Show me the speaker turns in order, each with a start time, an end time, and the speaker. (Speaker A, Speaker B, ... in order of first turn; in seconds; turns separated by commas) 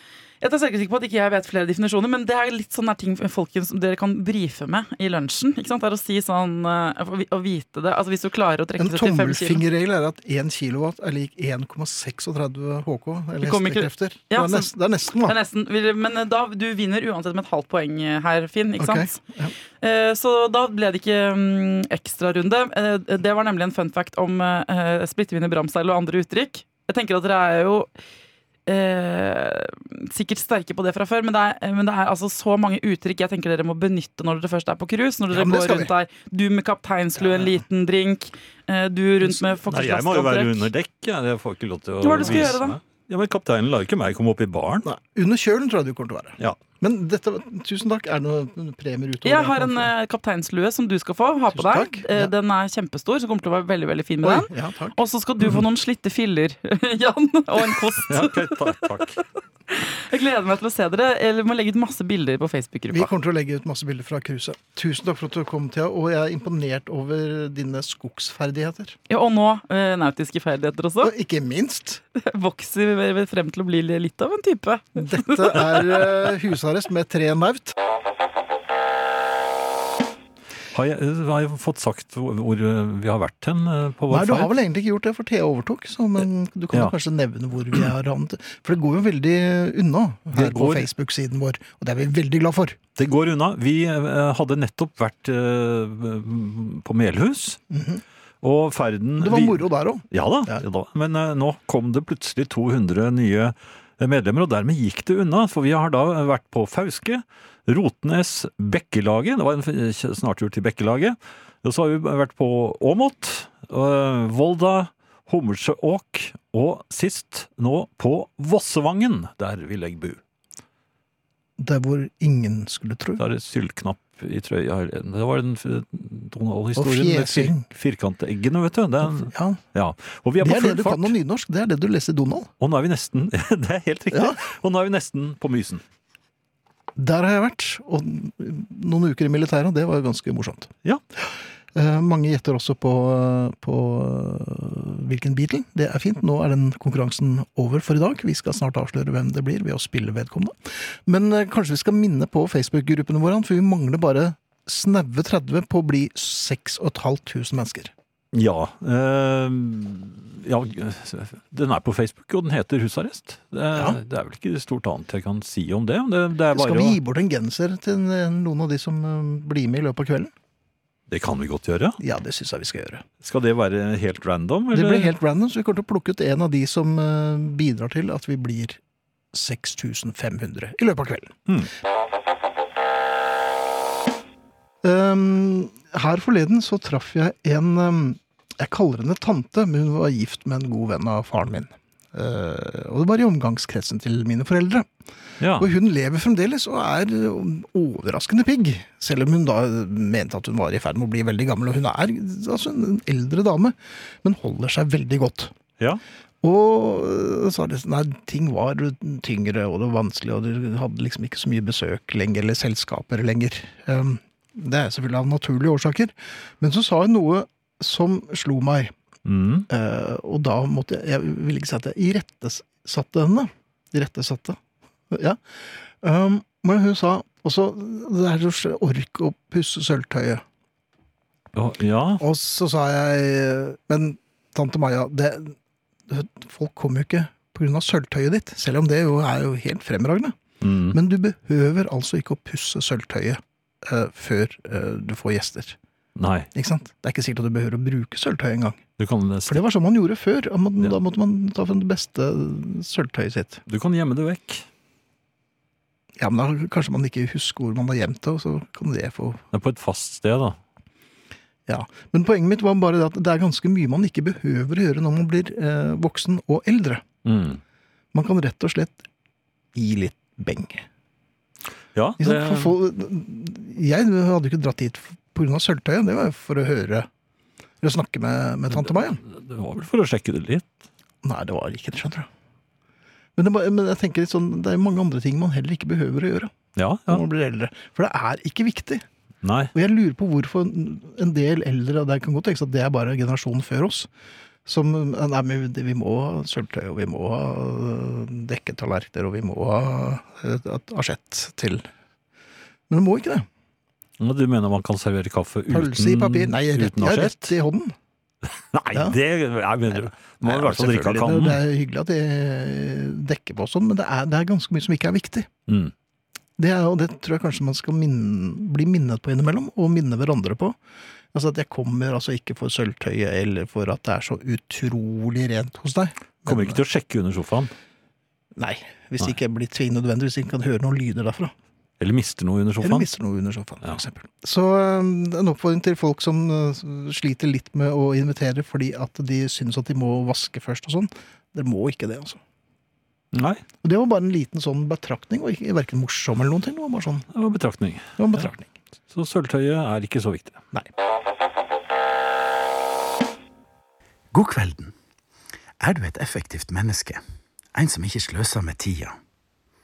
Speaker A: 0.4-9.6, Speaker B: 8.8-15.4, Speaker A: 13.4-19.2, Speaker B: 18.8-19.5, Speaker A: 19.8-27.9, Speaker A: 28.6-40.7, Speaker B: 35.3-35.9, Speaker C: 39.7-44.9, Speaker A: 42.0-42.8, Speaker B: 44.8-49.9, Speaker A: 49.2-59.0, Speaker B: 51.5-52.3, Speaker B: 54.2-55.0, Speaker C: 58.1-59.2, Speaker A: 59.7-63.1, Speaker B: 62.9-69.0, Speaker A: 69.1-71.1, Speaker B: 71.0-72.0, Speaker A: 72.1-76.0, Speaker B: 75.0-77.7, Speaker C: 80.7-84.5, Speaker B: 84.1-92.8, Speaker C: 90.3-90.9, Speaker C: 93.0-97.6, Speaker B: 97.7-98.0, Speaker C: 98.4-120.2, Speaker B: 99.2-100.6, Speaker B: 121.6-123.2, Speaker C: 123.2-131.1, Speaker B: 126.8-127.6, Speaker B: 129.1-129.6, Speaker B: 130.4-132.5, Speaker C: 132.6-135.8, Speaker B: 134.1-134.4, Speaker B: 137.0-157.9, Speaker C: 158.3-167.0, Speaker B: 163.7-164.0, Speaker B: 166.5-170.3, Speaker C: 171.1-172.0, Speaker B: 172.0-173.0, Speaker C: 173.2-175.1, Speaker B: 174.7-178.8, Speaker B: 179.3-181.4, Speaker B: 184.8-194.9, Speaker C: 195.4-195.7, Speaker B: 195.6-205.5, Speaker B: 206.4-218.9, Speaker C: 219.2-219.7, Speaker B: 219.7-224.6, Speaker B: 225.1-230.4, Speaker C: 231.5-232.2, Speaker B: 232.2-235.6, Speaker B: 236.1-240.3, Speaker C: 240.6-241.0, Speaker B: 240.9-245.8, Speaker C: 246.2-246.5, Speaker B: 246.5-248.8, Speaker C: 249.0-249.6, Speaker B: 249.5-253.6, Speaker C: 253.7-254.6, Speaker B: 256.2-259.4, Speaker C: 259.5-260.6, Speaker B: 261.7-267.0, Speaker C: 267.2-267.6, Speaker B: 268.1-269.0, Speaker B: 269.7-270.8, Speaker C: 271.9-272.8, Speaker B: 272.2-277.1, Speaker B: 277.8-279.2, Speaker C: 279.2-280.7, Speaker B: 281.2-282.3, Speaker B: 283.4-286.5, Speaker C: 286.8-287.2, Speaker B: 287.1-289.0, Speaker C: 289.4-289.7, Speaker B: 289.7-294.1, Speaker B: 294.6-301.8, Speaker B: 302.9-303.5, Speaker C: 304.2-307.5, Speaker B: 305.7-307.9, Speaker C: 308.7-311.6, Speaker B: 308.9-309.2, Speaker B: 309.9-315.5, Speaker C: 315.7-315.9, Speaker B: 316.6-320.8, Speaker B: 321.3-326.8, Speaker C: 326.4-327.7, Speaker B: 328.6-331.5, Speaker C: 332.0-333.1, Speaker B: 332.8-342.4, Speaker C: 343.3-343.6, Speaker B: 343.8-347.3, Speaker C: 347.3-348.5, Speaker B: 348.2-348.7, Speaker C: 349.1-350.6, Speaker D: 354.3-354.9, Speaker D: 355.8-357.2, Speaker D: 357.7-359.1